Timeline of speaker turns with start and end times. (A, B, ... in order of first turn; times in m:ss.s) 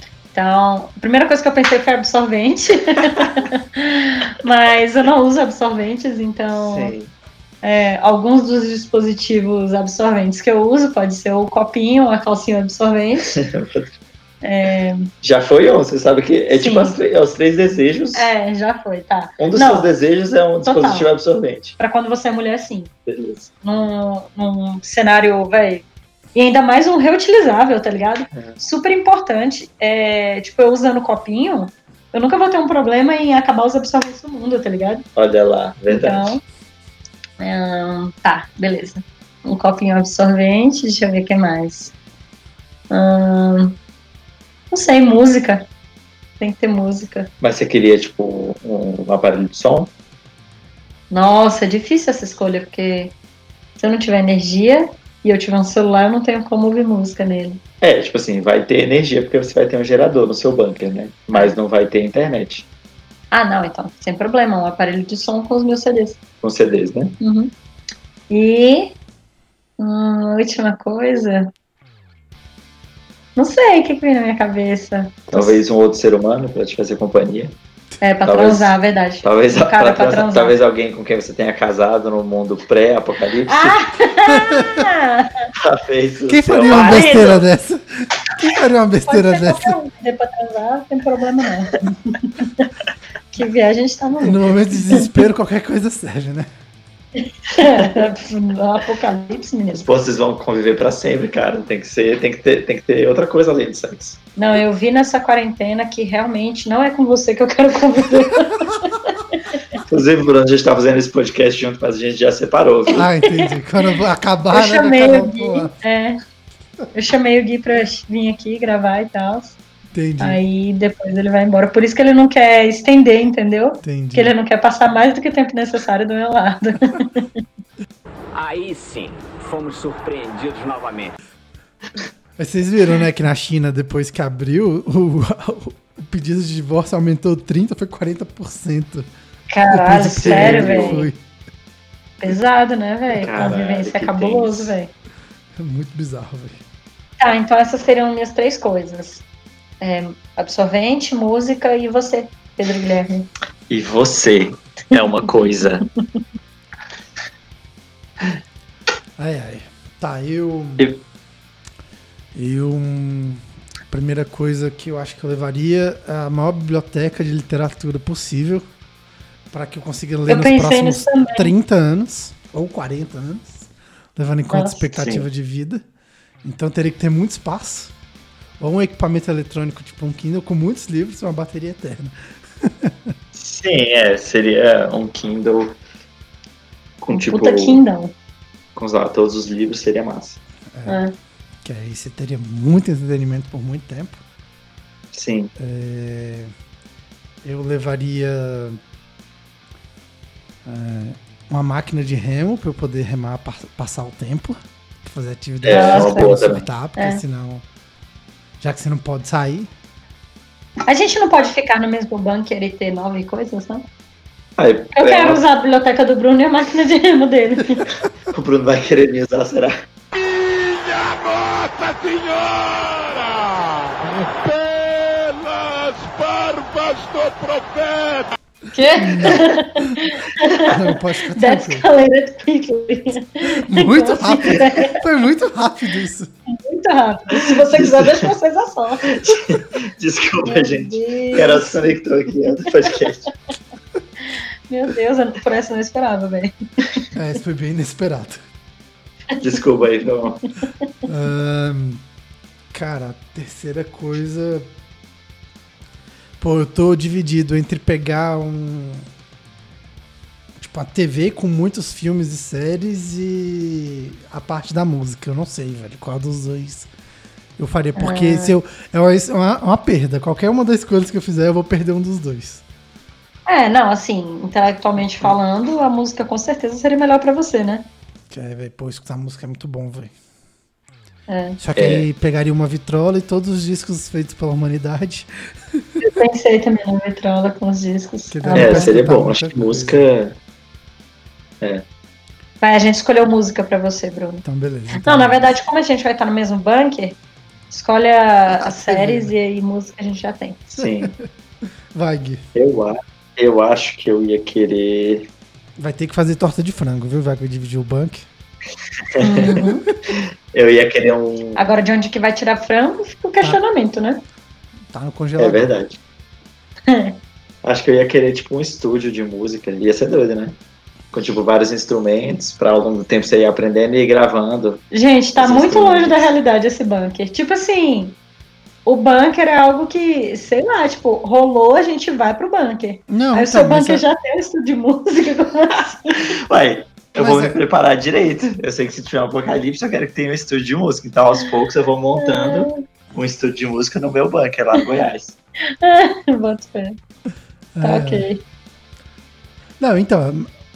0:00.3-0:06.9 A
0:06.6-0:07.1 B
0:07.6-0:13.3 A
0:13.2-0:13.9 B
0:14.4-0:15.1 A
0:15.2-0:18.3 B
0:16.5-0:17.0 A
0:18.1-0:19.9 A
0:19.4-0:21.8 B
0:20.6-0:21.1 A
0:21.8-0:22.9 A
0:23.1-0:23.5 B
0:23.6-0:35.0 A
0:35.2-0:36.4 B
0:35.9-0:36.4 A
0:37.4-0:41.9 A
0:42.9-0:43.8 A
0:44.7-0:45.6 A
0:46.4-0:47.3 A
0:47.4-0:49.9 B
0:51.1-0:53.1 A
0:53.8-0:57.6 A
0:57.8-1:02.7 B
1:03.3-1:06.2 A
1:06.4-1:07.2 B
1:07.2-1:07.5 A
1:08.3-1:08.9 A
1:09.8-1:11.5 A
1:13.4-1:15.6 A
1:15.3-1:17.6 B
1:18.0-1:20.6 A
1:18.2-1:23.8 B
1:23.5-1:25.5 A
1:24.4-1:24.7 C
1:25.6-1:27.4 B
1:26.3-1:29.8 C
1:26.7-1:27.4 A
1:29.0-1:32.7 A
1:33.3-1:35.1 A
1:34.2-1:36.5 C
1:37.2-1:40.0 A
1:39.7-1:44.2 B
1:44.4-1:49.6 A
1:49.8-1:53.0 B
1:52.9-1:55.7 C
1:53.0-1:53.6 A
1:54.5-1:56.2 A
1:56.9-1:59.6 A
1:59.9-2:00.4 C
2:00.2-2:07.4 A
2:03.8-2:04.3 C
2:08.3-2:11.1 D
2:12.4-2:19.1 C
2:19.5-2:21.0 A
2:19.7-2:21.2 C
2:20.1-2:21.1 B
2:22.2-2:24.9 A
2:23.1-2:24.8 B
2:25.6-2:26.6 C
2:27.2-2:29.2 A
2:29.8-2:33.3 A
2:33.7-2:35.8 B
2:39.2-2:40.9 C
2:42.3-2:48.6 C
2:49.5-2:55.8 C
2:50.3-2:51.5 A
2:54.5-2:54.9 A
2:55.0-2:55.2 B
2:56.4-2:57.9 C
2:58.6-3:03.1 C
3:03.3-3:05.8 B
3:07.0-3:07.8 B
3:07.1-3:08.1 A
3:08.8-3:10.4 B
3:10.7-3:11.0 C
3:10.8-3:11.1 A
3:11.6-3:14.2 C
3:15.1-3:15.5 B
3:15.6-3:16.5 C
3:17.4-3:18.8 C
3:20.6-3:27.6 C
3:25.6-3:26.6 B
3:25.7-3:26.3 A
3:28.6-3:29.7 C
3:30.9-3:33.9 A
3:34.6-3:35.4 B
3:34.9-3:37.9 A
3:38.3-3:39.8 B
3:40.1-3:48.3 E
3:48.7-3:50.8 A
3:49.0-3:49.4 C
3:50.6-3:51.9 C
3:51.3-3:55.0 A
3:53.6-3:56.3 C
3:56.5-3:59.4 A
3:57.7-3:58.3 B
3:59.1-4:03.3 B
4:00.4-4:01.7 A
4:04.2-4:06.5 A
4:07.1-4:08.4 C
4:09.4-4:10.4 B
4:11.0-4:12.0 C
4:12.7-4:14.7 C
4:16.4-4:19.1 C
4:20.6-4:26.9 C
4:27.6-4:32.6 C
4:28.0-4:28.5 A
4:33.4-4:37.9 A
4:38.3-4:40.1 C
4:41.3-4:41.6 A
4:41.6-4:46.0 C
4:41.8-4:42.0 B
4:46.0-4:48.9 A
4:48.3-4:50.0 C
4:48.5-4:50.4 B
4:52.6-4:57.2 A
4:54.4-4:55.5 C
4:57.7-5:00.6 A
4:58.5-4:59.3 C
5:00.7-5:01.1 B
5:00.8-5:01.1 C
5:01.9-5:02.4 C
5:02.5-5:05.3 B
5:05.8-5:08.3 C
5:09.1-5:09.6 B
5:09.2-5:09.8 A
5:10.2-5:11.6 B
5:11.6-5:14.2 A
5:14.9-5:15.7 C
5:15.4-5:16.0 B
5:16.9-5:17.2 A
5:17.6-5:20.6 B
5:21.1-5:24.8 B
5:24.9-5:28.2 A
5:25.4-5:26.3 B
5:28.8-5:36.4 A
5:33.1-5:34.0 C
5:36.5-5:45.4 B
5:37.2-5:37.6 C
5:42.2-5:42.8 A
5:45.7-5:47.0 A
5:47.7-5:48.3 C
5:47.8-5:48.4 A
5:49.8-5:50.5 C